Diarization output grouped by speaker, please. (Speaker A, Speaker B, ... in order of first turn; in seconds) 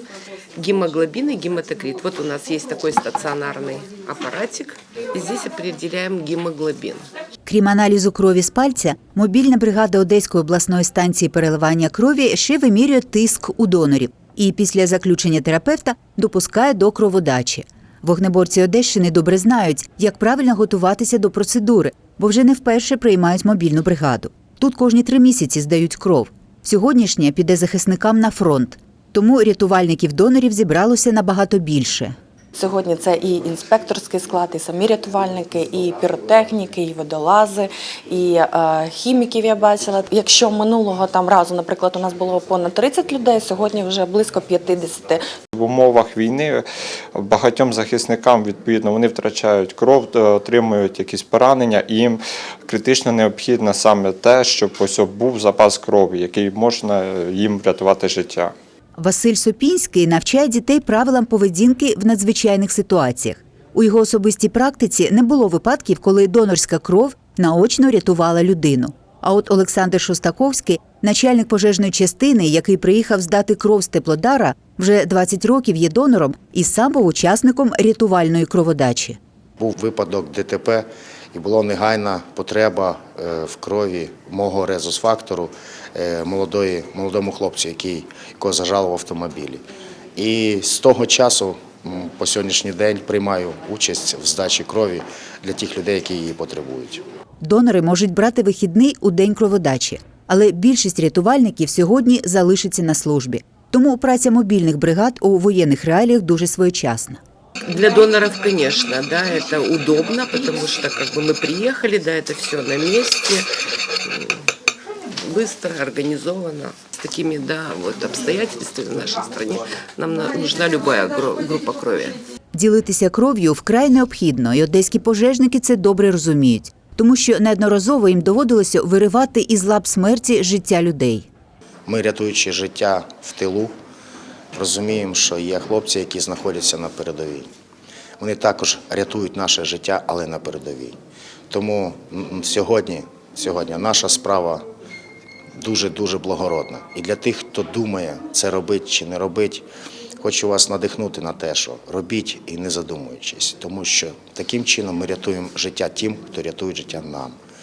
Speaker A: 0.6-7.0, 107.6-113.5, 114.0-114.4, 115.2-122.2
Speaker B: 7.5-32.1, 59.0-79.2, 97.4-107.2, 122.5-131.3
Speaker C: 32.5-45.2
Speaker D: 45.5-46.6, 47.1-58.5
Speaker E: 79.6-89.6, 90.2-97.0, 131.8-133.7, 134.5-137.5, 138.2-140.9, 141.5-144.6, 145.6-149.7, 150.2-157.3